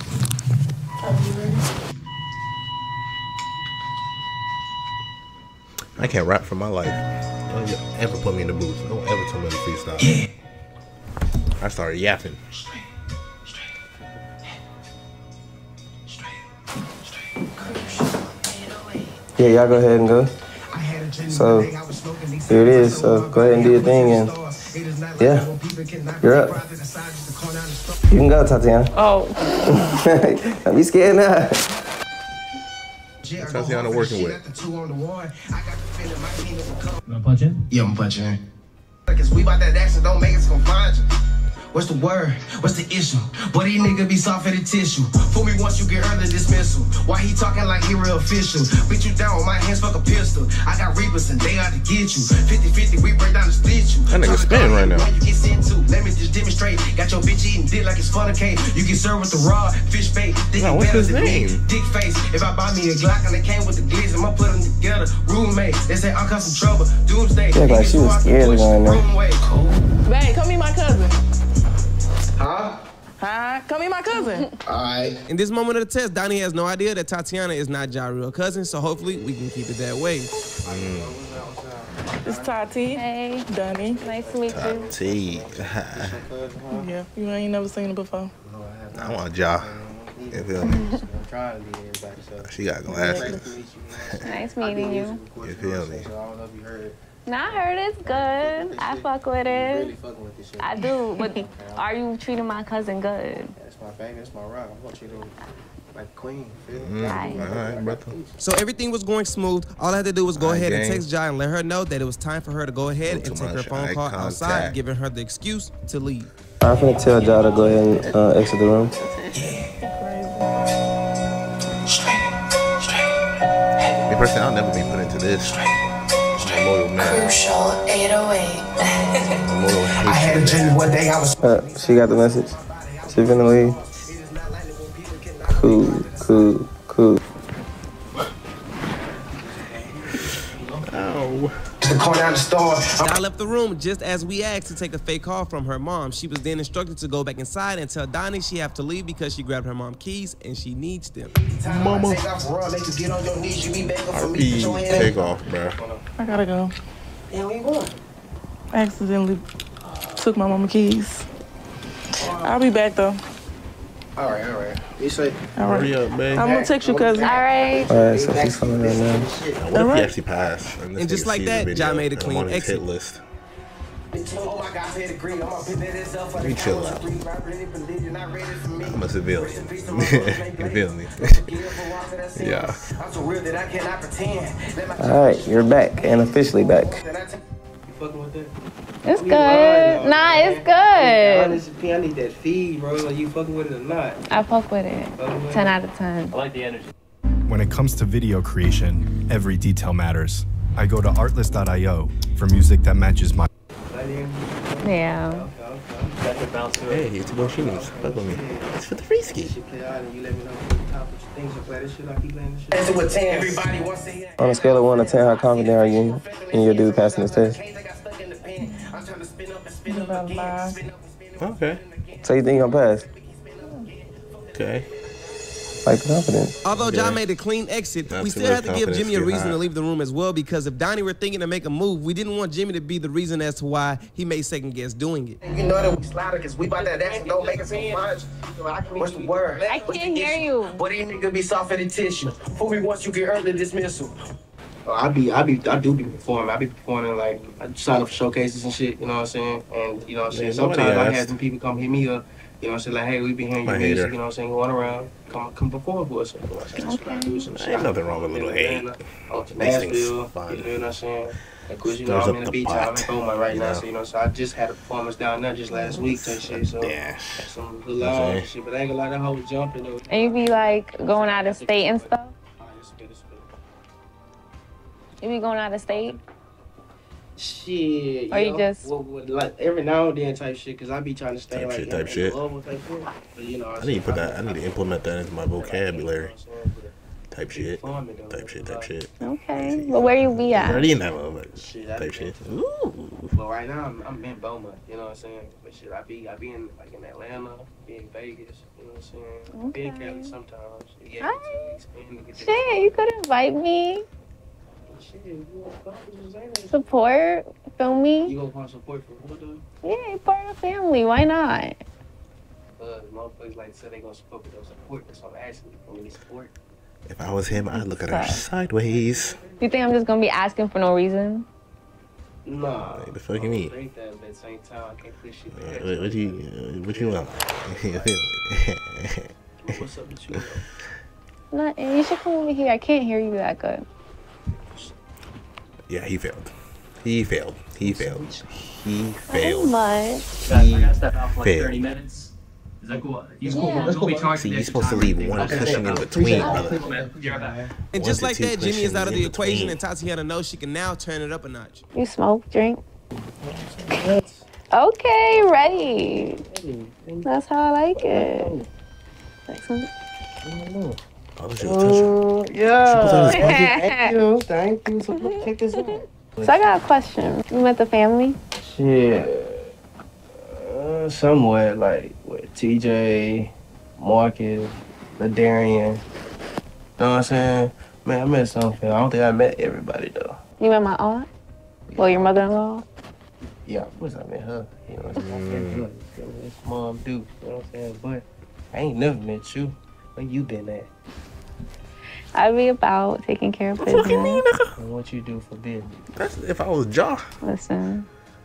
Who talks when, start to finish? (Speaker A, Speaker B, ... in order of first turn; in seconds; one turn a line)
Speaker A: 1.0-1.6
Speaker B: 5.9-10.2
Speaker B: 11.6-12.4
Speaker A: 17.4-18.6
Speaker C: 19.4-20.3
Speaker A: 20.7-27.9
Speaker C: 21.3-21.7
Speaker C: 22.5-24.4
Speaker C: 25.2-25.5
Speaker C: 26.2-26.6
Speaker C: 28.1-28.9
Speaker D: 28.9-29.8
Speaker C: 29.7-31.6
Speaker A: 33.2-37.0
Speaker B: 33.4-34.4
Speaker E: 37.0-37.6
Speaker A: 37.7-38.4
Speaker A: 39.1-41.0
Speaker A: 41.7-69.5
Speaker B: 54.1-55.1
Speaker B: 60.5-61.6
Speaker C: 67.5-69.0
Speaker F: 70.0-71.2
Speaker A: 72.4-72.8
Speaker F: 73.2-74.5
Speaker D: 74.1-74.4
Speaker A: 74.6-75.2
Speaker G: 75.3-80.3
Speaker A: 80.6-82.7
Speaker B: 80.6-81.2
Speaker F: 82.2-84.0
Speaker D: 82.9-84.9
Speaker A: 83.7-86.9
Speaker B: 84.5-86.2
Speaker F: 86.7-88.3
Speaker A: 88.4-101.8
Speaker B: 88.9-89.8
Speaker B: 90.3-90.8
Speaker D: 90.6-90.9
Speaker B: 92.4-93.5
Speaker D: 92.9-93.4
Speaker D: 94.2-95.2
Speaker B: 95.4-96.1
Speaker D: 97.2-99.9
Speaker D: 100.6-103.5
Speaker A: 103.6-105.4
Speaker A: 105.9-108.4
Speaker B: 106.7-108.2
Speaker D: 107.0-107.5
Speaker G: 108.4-116.3
Speaker B: 110.3-111.0
Speaker B: 113.0-114.8
Speaker C: 116.6-118.9
Speaker B: 117.0-118.4
Speaker B: 119.0-119.3
Speaker F: 119.8-120.5
Speaker B: 124.1-125.6
Speaker B: 126.3-127.5
Speaker H: 126.5-128.6
Speaker B: 129.4-130.9
Speaker A: 130.0-136.5
Speaker C: 131.4-132.5
Speaker C: 133.1-133.8
Speaker C: 135.5-137.2
Speaker A: 139.1-141.1
Speaker B: 140.8-141.6
Speaker A: 141.8-143.2
Speaker G: 142.9-151.3
Speaker A: 151.2-156.0
Speaker B: 151.6-152.2
Speaker B: 154.1-155.8
Speaker F: 156.2-156.7
Speaker A: 157.3-158.0
Speaker F: 158.7-159.4
Speaker A: 159.9-160.2
Speaker F: 160.1-161.2
Speaker F: 162.1-163.2
Speaker A: 162.2-162.6
Speaker A: 164.2-165.5
Speaker F: 165.6-167.4
Speaker B: 165.6-166.6
Speaker A: 166.3-169.6
Speaker D: 167.2-167.9
Speaker C: 167.9-169.3
Speaker B: 169.6-173.2
Speaker F: 169.7-170.1
Speaker G: 171.0-172.8
Speaker A: 174.1-188.5
Speaker B: 176.3-177.1
Speaker B: 178.8-181.5
Speaker B: 182.3-182.8
Speaker C: 185.0-187.0
Speaker D: 189.0-191.6
Speaker A: 189.1-194.2
Speaker D: 194.3-196.3
Speaker A: 195.2-195.7
Speaker E: 196.3-196.9
Speaker I: 197.5-203.5
Speaker A: 203.9-206.2
Speaker D: 204.8-205.5
Speaker E: 206.1-207.2
Speaker B: 206.8-209.5
Speaker A: 207.2-208.8
Speaker A: 209.3-225.3
Speaker C: 214.4-217.6
Speaker F: 219.8-220.8
Speaker B: 221.4-221.8
Speaker C: 222.2-223.1
Speaker F: 223.6-223.9
Speaker B: 224.5-224.9
Speaker C: 225.8-226.5
Speaker G: 226.6-235.4
Speaker B: 226.7-227.2
Speaker B: 228.1-229.7
Speaker A: 235.4-244.1
Speaker E: 236.8-237.3
Speaker D: 239.7-240.8
Speaker A: 244.8-273.5
Speaker B: 250.3-251.3
Speaker B: 253.6-254.1
Speaker D: 256.8-257.5
Speaker B: 257.4-258.9
Speaker B: 259.4-260.7
Speaker B: 261.9-263.8
Speaker D: 265.8-266.2
Speaker B: 266.4-268.5
Speaker D: 270.1-272.3
Speaker D: 275.2-276.2
Speaker A: 275.9-276.2
Speaker A: 277.4-286.9
Speaker D: 278.3-278.9
Speaker B: 281.5-282.4
Speaker B: 283.8-286.3
Speaker B: 287.3-293.3
Speaker A: 287.5-288.9
Speaker D: 289.2-290.9
Speaker A: 291.5-292.6
Speaker A: 293.3-303.0
Speaker D: 299.6-300.3
Speaker D: 301.2-301.8
Speaker D: 302.3-304.1
Speaker A: 304.9-306.9
Speaker D: 306.7-308.3
Speaker A: 308.2-309.6
Speaker D: 309.8-311.8
Speaker A: 312.8-316.5
Speaker B: 317.1-319.4
Speaker D: 317.5-318.4
Speaker A: 318.2-320.0
Speaker D: 319.6-321.5
Speaker A: 322.4-328.1
Speaker B: 322.9-323.7
Speaker B: 325.5-329.8
Speaker A: 329.6-330.6
Speaker D: 331.5-333.8
Speaker B: 335.9-339.8
Speaker A: 337.8-338.4
Speaker D: 339.3-340.3
Speaker B: 340.4-341.9
Speaker E: 340.4-347.6
Speaker A: 342.9-344.4
Speaker D: 343.5-343.9
Speaker B: 344.3-346.8
Speaker A: 345.4-347.7
Speaker D: 346.4-346.7
Speaker G: 347.9-351.8
Speaker B: 347.9-349.8
Speaker D: 351.9-352.8
Speaker A: 353.4-354.4
Speaker D: 354.7-356.4
Speaker A: 356.5-357.3
Speaker D: 357.2-358.5
Speaker A: 357.9-358.7
Speaker D: 359.5-359.9
Speaker A: 360.4-361.0
Speaker B: 361.4-362.1
Speaker A: 361.6-366.1
Speaker B: 362.8-363.6
Speaker D: 363.1-364.1
Speaker D: 365.9-368.4
Speaker A: 368.6-369.7
Speaker A: 370.4-376.0
Speaker A: 377.0-380.4
Speaker D: 380.6-381.3
Speaker A: 381.9-382.4
Speaker D: 382.0-382.8
Speaker A: 383.6-390.9
Speaker B: 385.0-385.8
Speaker D: 392.3-394.4
Speaker B: 393.8-394.7
Speaker A: 394.8-395.9
Speaker B: 396.1-397.3
Speaker D: 397.4-398.1